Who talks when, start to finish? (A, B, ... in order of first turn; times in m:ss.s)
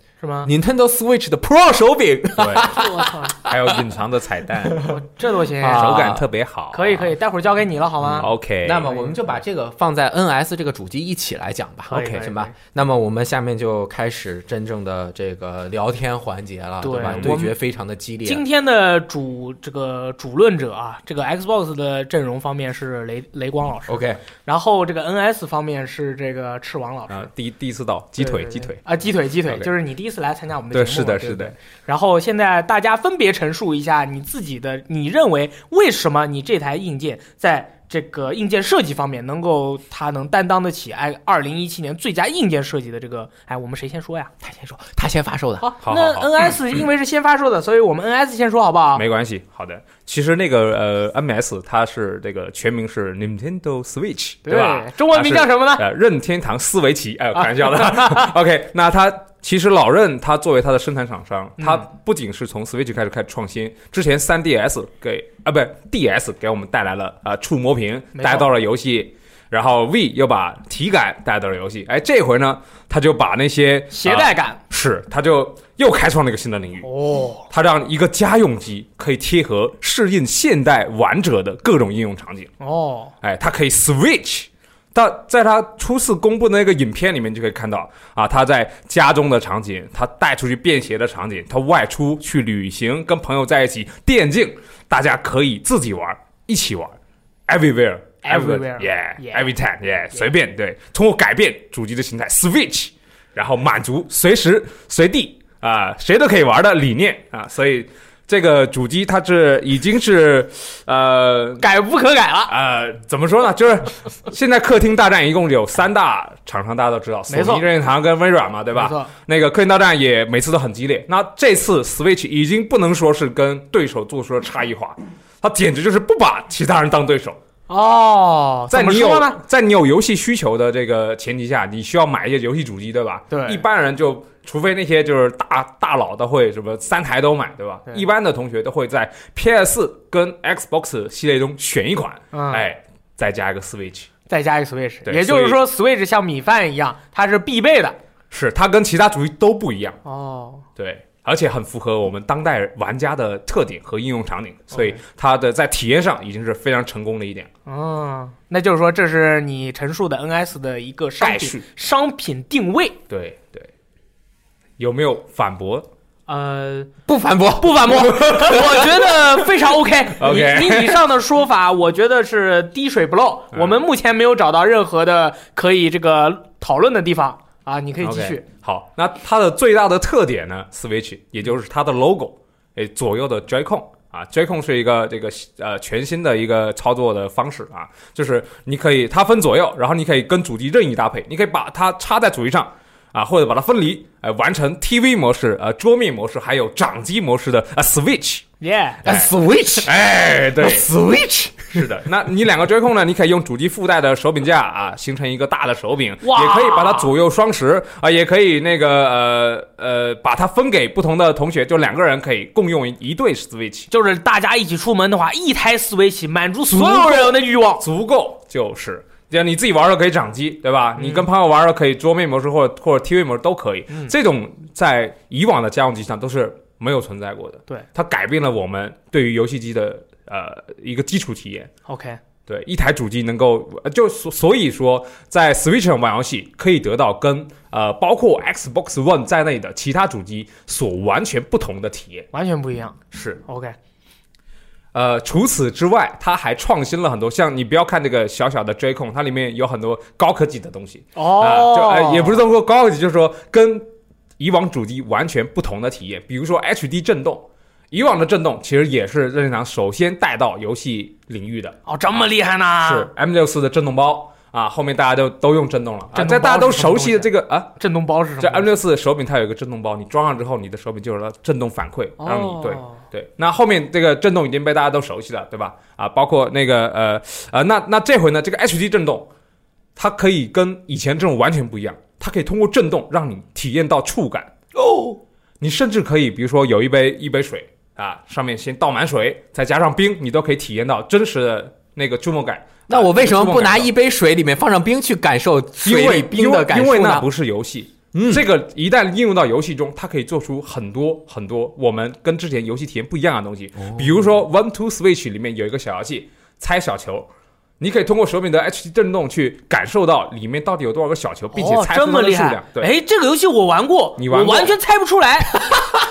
0:00.2-0:00.5 A
0:00.4-0:03.8 B
0:02.4-0:02.8 C
0:02.7-0:03.4 A
0:03.4-0:04.9 C
0:04.8-0:06.1 A
0:05.6-0:06.3 B
0:05.7-0:07.1 C
0:06.7-0:09.2 A
0:08.0-0:18.4 B
0:08.2-0:08.9 C
0:11.9-0:12.5 A
0:16.8-0:17.6 A
0:17.0-0:17.3 C
0:18.2-0:27.2 A
0:23.9-0:24.2 B
0:27.1-0:28.8 C
0:28.2-0:44.3 A
0:29.4-0:29.7 C
0:30.7-0:31.6 C
0:44.4-0:45.7 B
0:45.6-0:49.0 A
0:45.8-0:46.3 C
0:48.9-1:16.9 C
0:54.4-0:55.8 A
0:57.4-0:58.3 A
1:01.6-1:01.8 A
1:08.1-1:08.5 A
1:13.9-1:14.6 A
1:16.8-1:17.5 A
1:17.5-1:22.5 C
1:22.6-1:23.1 A
1:23.2-1:51.6 C
1:38.2-1:39.6 A
1:51.6-1:52.5 A
1:52.5-2:07.4 C
1:57.3-1:57.6 A
1:58.7-1:59.1 A
2:07.7-2:09.4 A
2:08.7-2:24.1 C
2:13.3-2:13.6 A
2:22.3-2:22.6 A
2:24.3-2:28.0 A
2:25.0-2:25.6 C
2:28.3-2:30.0 C
2:30.0-2:30.6 A
2:30.8-2:37.5 C
2:34.7-2:35.0 A
2:37.6-2:43.0 A
2:41.2-2:41.6 C
2:43.1-2:43.7 C
2:44.8-2:45.9 C
2:46.3-2:46.9 A
2:47.0-2:49.1 B
2:47.6-2:58.4 A
2:50.2-2:51.0 C
2:53.5-2:53.8 C
2:58.0-3:18.5 C
3:18.6-3:19.0 A
3:19.0-3:19.3 C
3:19.0-3:19.9 B
3:19.8-3:20.9 C
3:20.6-3:21.9 B
3:21.7-3:33.9 C
3:26.2-3:27.1 A
3:33.9-3:37.8 A
3:36.7-3:51.7 C
3:41.0-3:41.3 A
3:43.9-3:44.1 A
3:51.9-3:52.2 A
3:52.5-4:02.3 C
4:02.3-4:03.8 A
4:03.1-4:03.4 C
4:04.9-4:13.9 C
4:11.1-4:12.4 A
4:14.4-4:22.2 C
4:21.9-4:23.1 A
4:22.8-4:27.7 C
4:26.1-4:28.7 A
4:28.4-4:39.3 C
4:32.2-4:33.0 A
4:40.0-4:44.5 C
4:44.8-4:45.2 B
4:45.6-4:53.9 C
4:52.9-4:57.3 B
4:55.8-5:07.3 C
4:58.1-4:58.4 B
5:03.8-5:04.3 B
5:07.8-5:12.9 C
5:11.5-5:15.8 A
5:14.2-5:14.7 C